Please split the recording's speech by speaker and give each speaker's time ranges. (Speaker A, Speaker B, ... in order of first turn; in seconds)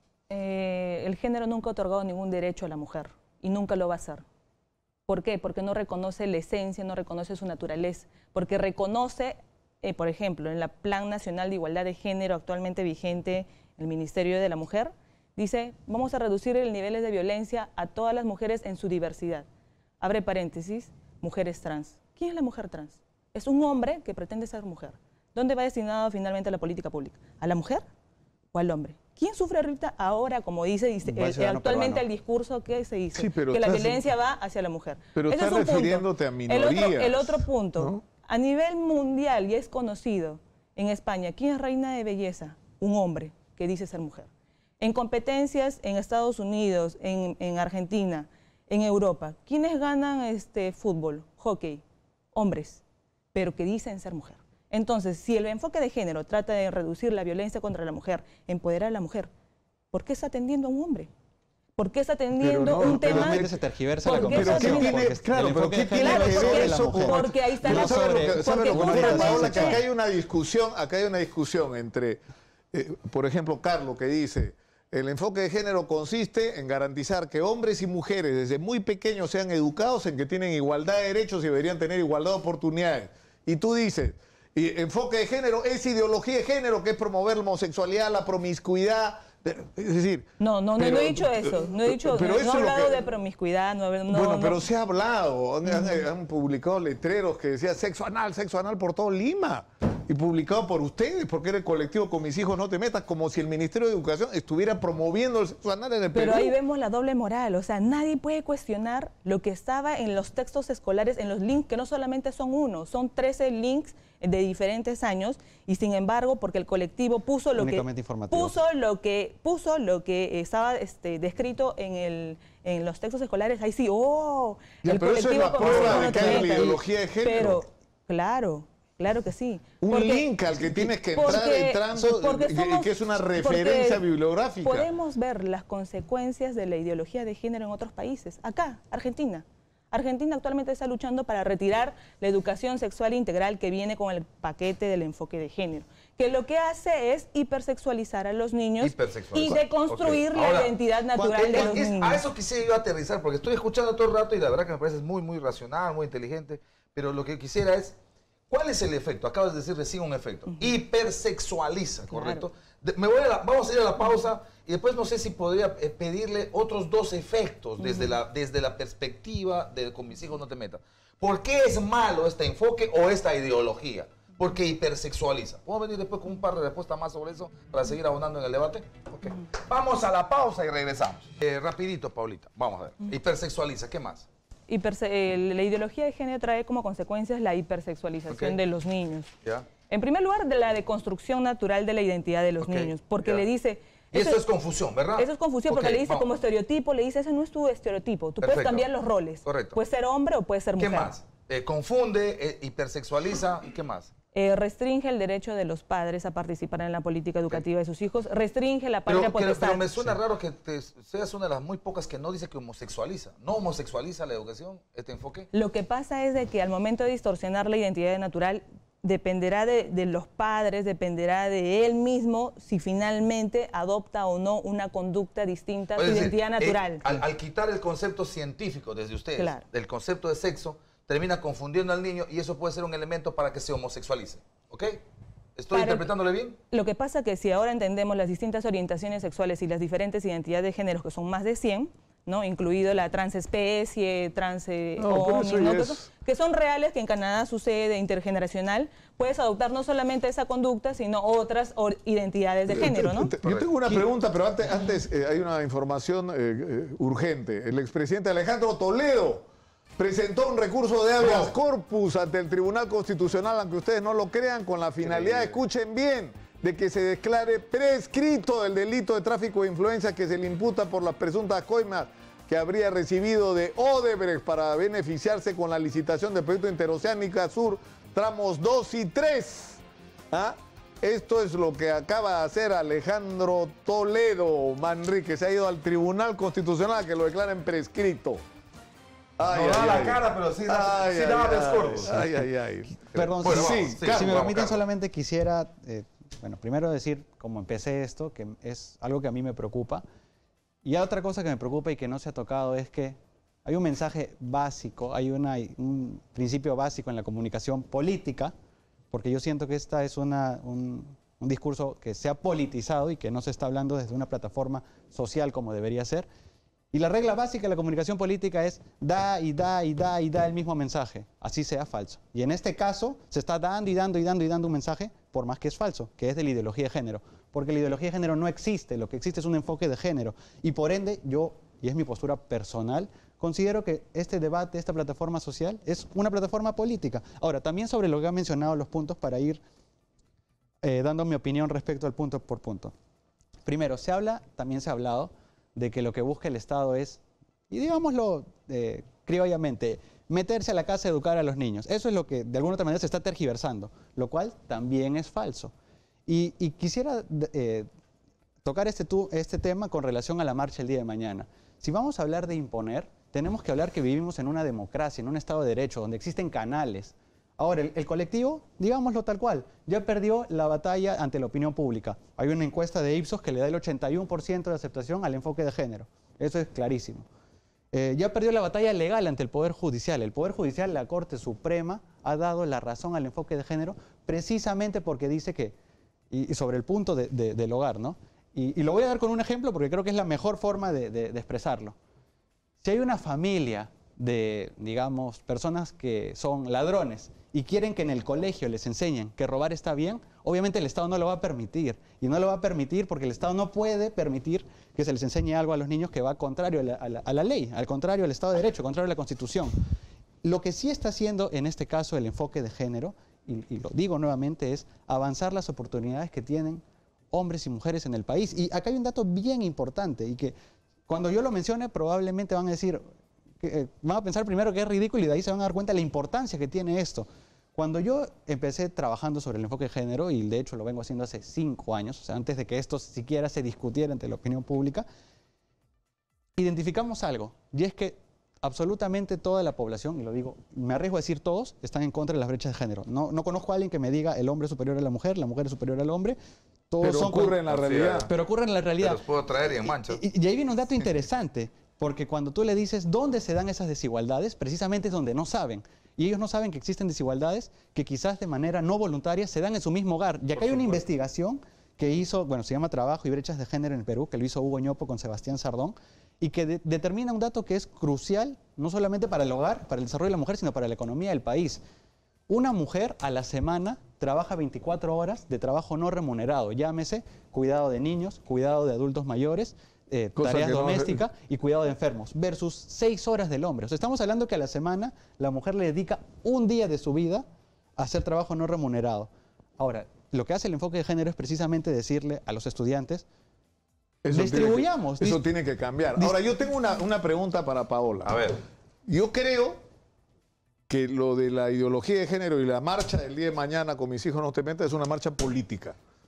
Speaker A: 0.3-4.2, 5.1-19.5, 20.0-27.8, 28.5-44.3, 44.8-52.8, 53.3-59.3, 59.9-61.1, 61.8-63.4, 64.0-65.0, 65.9-69.8, 90.4-94.6, 95.7-96.0, 106.1-134.0, 134.6-152.2, 162.1-162.4, 184.7-189.3, 189.9-194.4, 195.2-201.1, 204.3-209.9, 215.5-227.1, 229.4-229.6, 235.7-236.1, 236.7-253.3
Speaker B: 31.0-32.0, 62.7-69.8, 117.5-118.5, 151.2-151.8, 293.1-300.0, 300.8-308.5, 309.1-316.3, 316.9-339.6, 340.8-342.9, 343.6-355.7, 356.2-357.9, 358.6-377.3, 377.9-385.8, 386.3-391.9, 392.8-409.8, 410.4-420.5, 421.1-423.0, 423.6-435.1, 436.6-446.4, 446.9-447.6, 448.2-449.2, 449.9-471.8, 472.5-487.4, 488.0-493.2, 494.3-495.4
Speaker C: 33.1-34.0, 35.1-38.0, 62.4-63.5, 64.2-72.2, 72.7-93.0, 94.1-106.6, 124.8-127.6, 129.8-134.9, 245.0-246.0, 252.7-259.4, 260.0-279.8, 280.3-288.4, 289.4-294.6, 447.0-448.3, 480.4-481.2, 494.2-498.4, 499.1-499.8, 500.9-505.9
Speaker D: 125.6-126.3, 148.8-158.0, 158.5-184.2, 188.3-188.6, 192.6-193.4, 194.1-196.3, 198.4-198.9, 199.4-199.8, 200.8-204.1, 209.1-215.5, 226.0-235.0, 235.6-236.6, 261.2-261.5, 265.0-265.6, 289.4-292.4, 293.4-294.8, 447.7-448.3, 449.0-450.2, 498.2-498.6